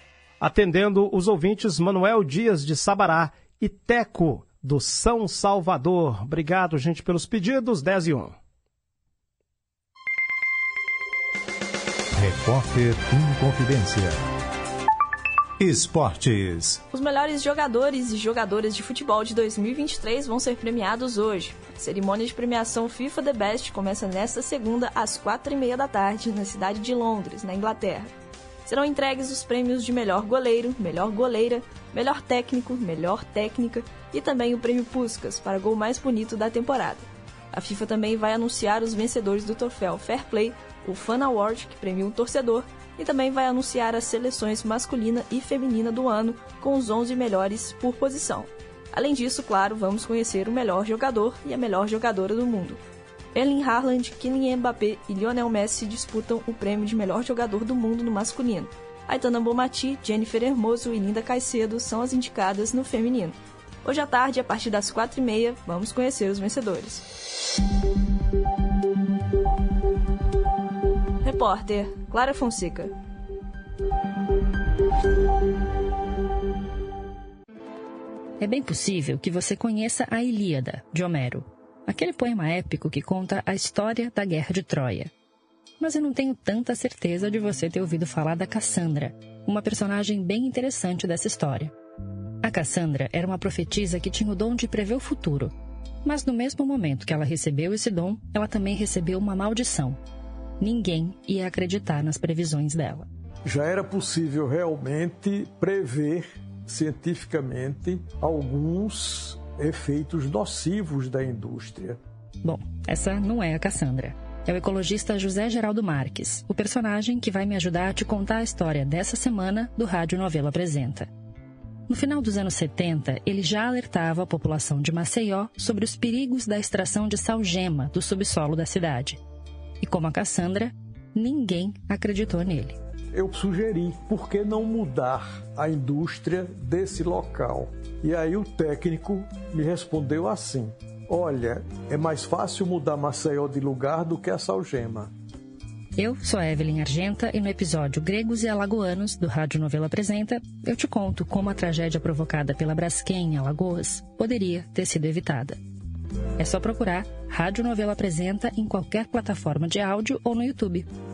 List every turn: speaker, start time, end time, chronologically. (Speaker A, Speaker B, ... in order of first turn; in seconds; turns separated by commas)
Speaker A: 0.4-8.3, Speaker B: 12.1-14.2, Speaker B: 15.6-16.8, Speaker C: 16.9-28.1, Speaker C: 28.7-52.8, Speaker C: 53.3-67.0, Speaker C: 71.2-72.9, Speaker D: 78.4-85.1, Speaker D: 85.8-91.7, Speaker D: 92.4-95.5, Speaker D: 96.0-100.0, Speaker D: 100.6-103.1, Speaker E: 103.5-112.0, Speaker D: 112.4-121.1, Speaker D: 121.9-129.2, Speaker D: 129.8-132.8, Speaker E: 133.1-145.1, Speaker D: 146.0-155.6, Speaker D: 156.4-160.9